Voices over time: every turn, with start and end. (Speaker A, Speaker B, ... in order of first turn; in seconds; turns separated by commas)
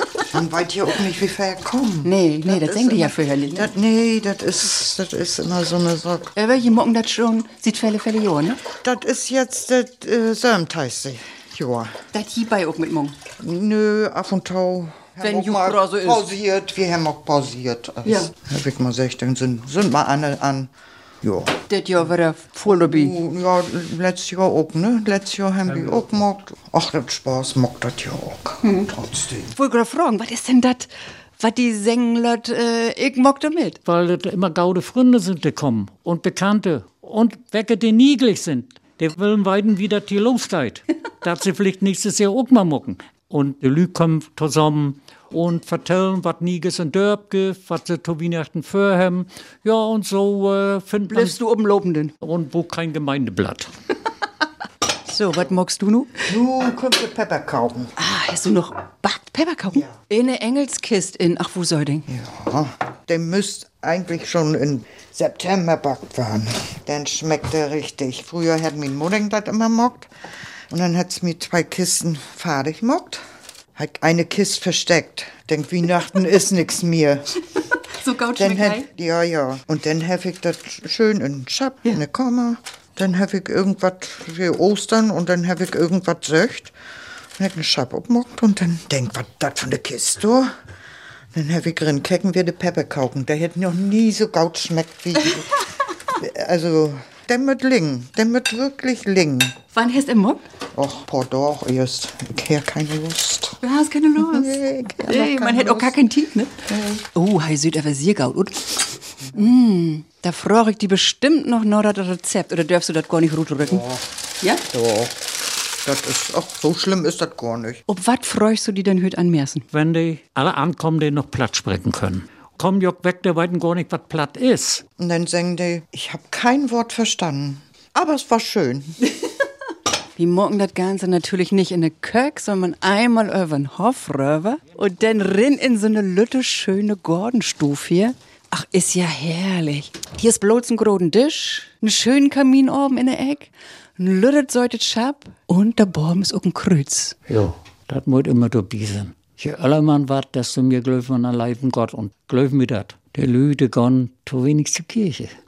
Speaker A: 0.3-6.3, Speaker B: 2.0-3.7, Speaker B: 6.4-8.6, Speaker A: 8.8-12.0, Speaker B: 12.1-13.2, Speaker A: 13.4-20.7, Speaker B: 15.2-16.3, Speaker B: 18.1-18.3, Speaker A: 21.2-21.6, Speaker B: 21.7-23.1, Speaker A: 22.7-29.4, Speaker B: 28.6-28.9, Speaker B: 29.5-33.8, Speaker C: 33.9-51.4, Speaker B: 51.1-52.1, Speaker C: 52.2-53.7, Speaker B: 55.1-56.2, Speaker A: 56.3-57.9, Speaker B: 58.0-62.1, Speaker A: 62.1-70.1, Speaker A: 70.7-73.2, Speaker A: 73.8-77.4, Speaker B: 78.0-78.9, Speaker A: 78.4-86.7, Speaker A: 87.4-90.5, Speaker A: 91.3-99.5, Speaker B: 99.7-100.5, Speaker A: 100.8-103.6, Speaker B: 103.6-108.8, Speaker A: 104.2-105.9, Speaker B: 109.3-113.9, Speaker A: 113.7-114.0, Speaker A: 114.7-117.8, Speaker B: 117.9-119.7, Speaker C: 119.7-124.8, Speaker A: 125.0-129.0, Speaker B: 130.2-147.2, Speaker C: 147.3-155.3